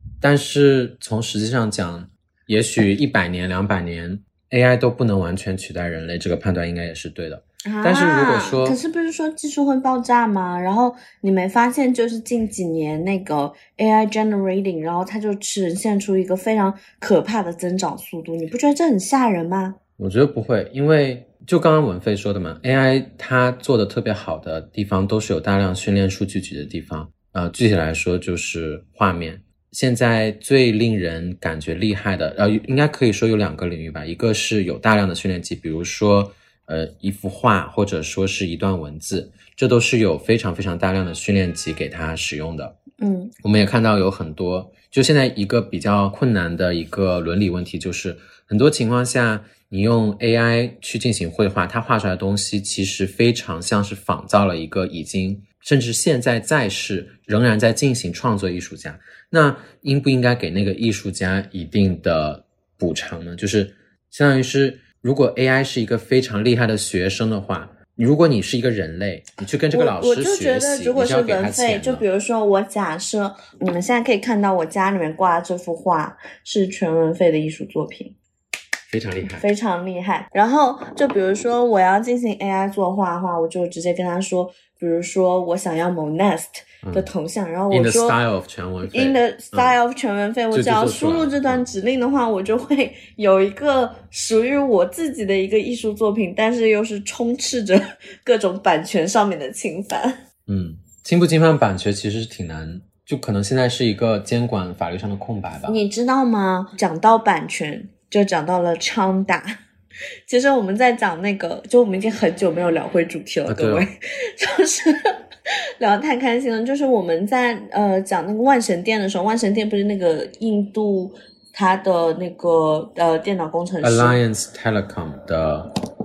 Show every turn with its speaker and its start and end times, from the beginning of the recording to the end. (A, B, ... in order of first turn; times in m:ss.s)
0:00.2-0:08.8 A
0:07.6-0:19.8 B
0:20.0-0:42.8 A
0:43.0-0:43.3 B
0:43.4-1:12.0 A
1:09.7-1:18.2 B
1:18.9-1:19.5 A
1:19.3-1:28.2 B
1:27.7-1:29.7 A
1:28.9-1:40.2 B
1:30.5-1:31.6 A
1:40.5-1:45.8 A
1:45.7-1:49.6 B
1:50.3-1:55.2 B
1:53.5-1:53.8 A
1:55.8-2:04.2 B
2:03.8-2:05.7 A